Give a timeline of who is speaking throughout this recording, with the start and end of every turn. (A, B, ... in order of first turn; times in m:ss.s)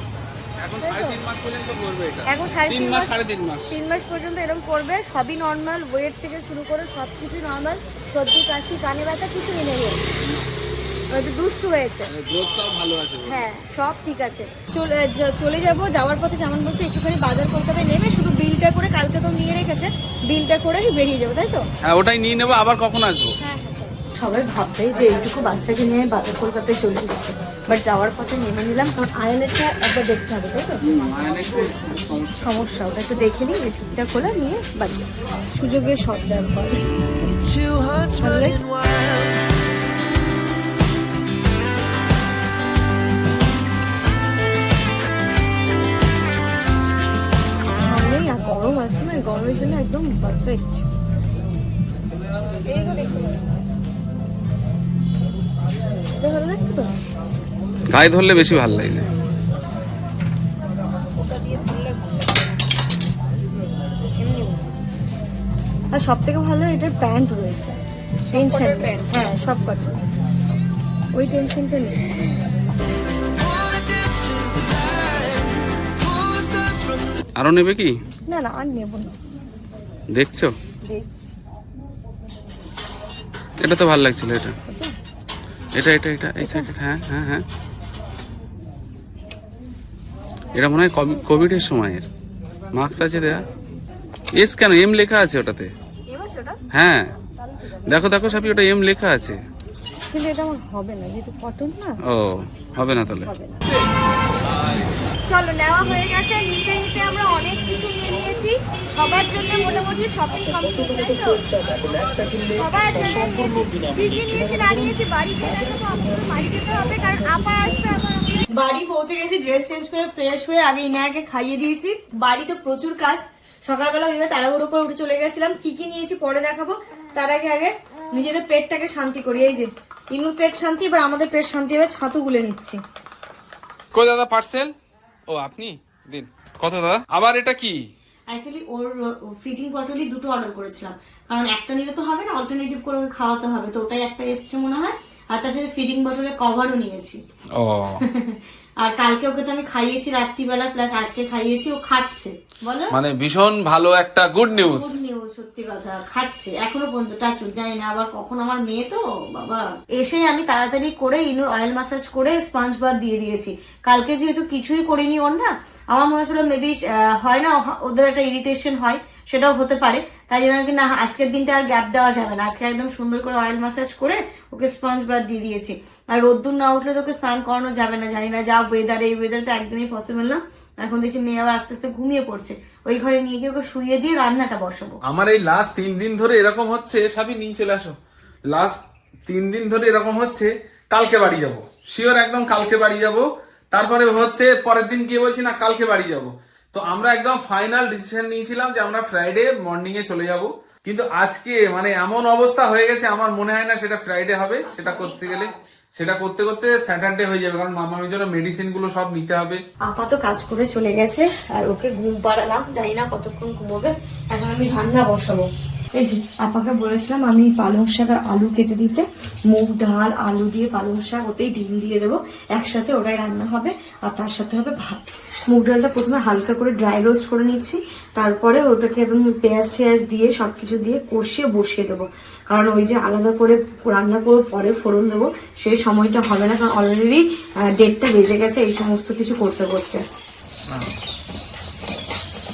0:00.6-0:02.2 A
0:00.8-0:01.2 B
0:00.9-0:02.1 C
0:02.2-0:03.2 B
0:02.7-0:03.6 A
0:02.8-0:03.5 C
0:03.7-0:10.1 B
0:11.1-0:12.1 B
0:12.3-0:13.2 A
0:12.3-0:13.0 C
0:13.2-0:21.7 B
0:21.9-0:23.2 A
0:22.0-0:23.3 C
0:23.4-0:31.8 B
0:30.9-0:32.3 A
0:30.9-0:31.3 C
0:32.3-0:37.3 B
0:38.1-0:38.8 B
0:47.8-0:50.9 B
0:52.6-0:53.4 B
0:56.2-0:57.0 B
0:57.9-0:59.0 A
0:58.0-0:59.0 C
1:01.2-1:02.5 B
1:04.2-1:04.7 B
1:05.9-1:10.0 B
1:11.2-1:12.2 B
1:17.4-1:17.9 C
1:17.4-1:17.9 A
1:18.3-1:19.2 B
1:20.2-1:20.5 A
1:20.2-1:20.5 C
1:20.9-1:21.3 B
1:23.6-1:24.5 C
1:23.6-1:24.5 A
1:24.6-1:25.0 B
1:25.8-1:27.4 A
1:25.8-1:27.4 C
1:26.4-1:26.7 B
1:30.5-1:32.0 C
1:32.8-1:33.4 C
1:32.8-1:33.1 A
1:34.4-1:35.6 A
1:34.4-1:35.7 C
1:36.1-1:36.6 B
1:36.7-1:37.0 A
1:37.9-1:39.4 C
1:37.9-1:39.4 A
1:40.1-1:42.0 B
1:42.1-1:43.2 A
1:42.8-1:43.3 C
1:43.2-1:43.6 B
1:45.3-1:51.5 B
1:52.5-2:12.8 B
2:13.9-2:14.7 A
2:14.1-2:14.7 C
2:15.3-2:17.8 A
2:15.4-2:16.2 C
2:16.9-2:17.7 C
2:18.3-2:27.2 B
2:27.6-2:27.9 A
2:27.9-2:33.0 B
2:33.0-2:34.6 C
2:33.1-2:34.8 A
2:34.5-3:05.0 B
3:05.1-3:08.0 A
3:05.2-3:07.9 C
3:08.5-3:08.8 A
3:09.3-3:09.7 C
3:09.3-3:29.6 A
3:11.0-3:11.9 C
3:12.4-3:13.2 C
3:13.7-3:15.1 C
3:15.6-3:16.3 C
3:17.1-3:17.6 C
3:18.5-3:25.3 C
3:24.6-3:25.8 B
3:26.1-3:29.6 C
3:29.8-4:00.0 B